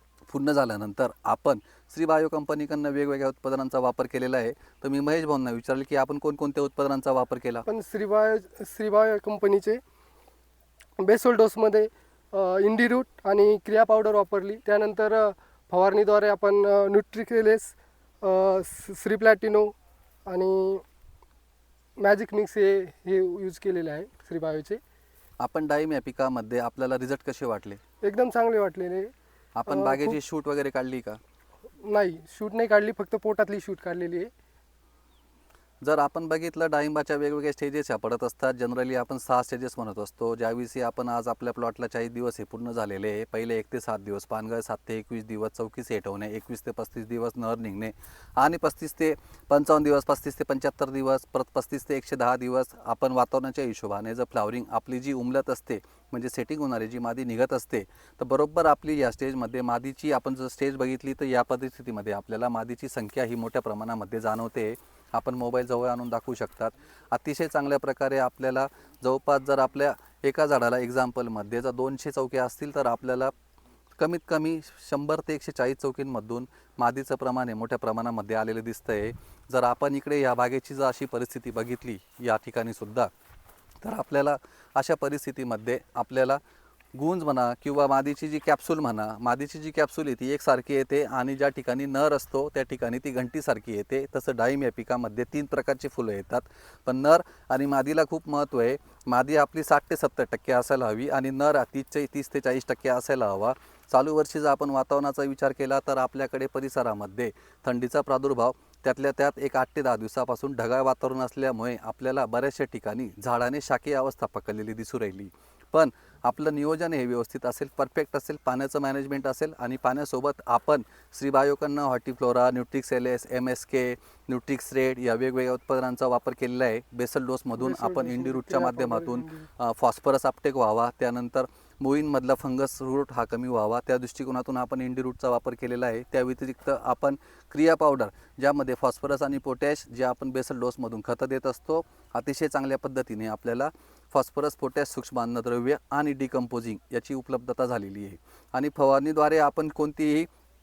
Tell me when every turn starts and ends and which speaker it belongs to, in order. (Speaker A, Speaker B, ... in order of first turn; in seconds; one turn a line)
Speaker A: 0.3-7.7
Speaker B: 7.7-9.8
Speaker B: 11.0-19.7
Speaker B: 20.3-20.8
Speaker B: 22.0-24.8
Speaker A: 25.4-27.8
Speaker B: 28.0-29.1
Speaker A: 29.6-31.2
Speaker B: 29.7-30.2
Speaker B: 31.8-34.3
Speaker A: 35.8-73.3
Speaker A: 74.0-83.1
Speaker A: 83.8-86.4
Speaker A: 87.0-150.3
Speaker B: 127.6-129.5